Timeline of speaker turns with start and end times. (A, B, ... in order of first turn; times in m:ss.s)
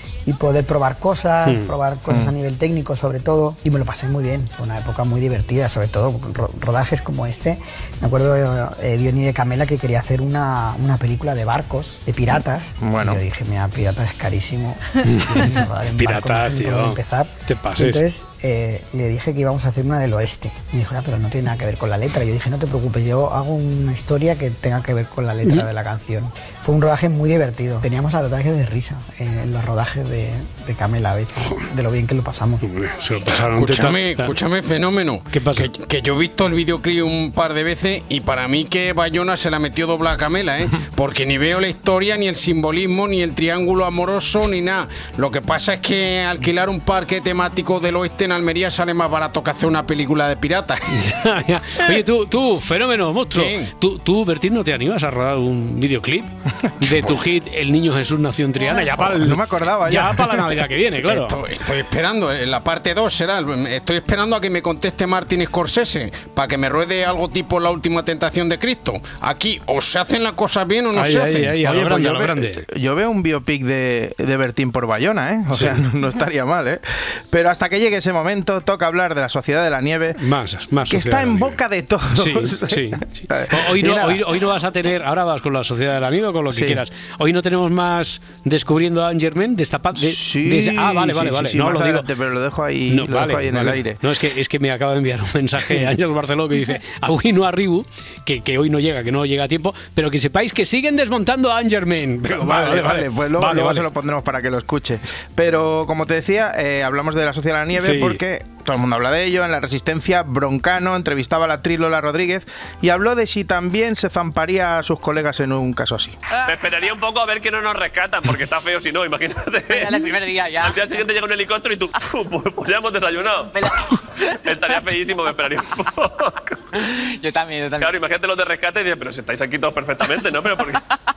0:00.2-0:32.6 A
0:01.4-0:01.7 B
0:12.8-0:13.2 C
0:15.2-0:18.0 B
0:32.6-0:34.3 B
0:33.4-0:50.8 D
0:35.3-0:35.7 B
0:50.9-1:01.4 B
0:53.3-0:53.6 D
0:59.0-1:00.6 C
1:01.1-1:11.5 D
1:10.9-1:12.6 B
1:11.6-1:20.2 C
1:15.5-1:15.8 B
1:20.2-1:21.6 B
1:20.9-1:24.2 C
1:22.2-1:32.0 B
1:26.5-1:26.8 C
1:30.0-1:34.0 C
1:32.9-1:43.8 B
1:42.3-1:56.2 C
1:47.8-1:48.2 B
1:56.4-2:06.6 E
1:59.7-2:00.9 F
2:03.5-2:03.8 F
2:07.0-2:07.9 F
2:07.8-2:10.8 E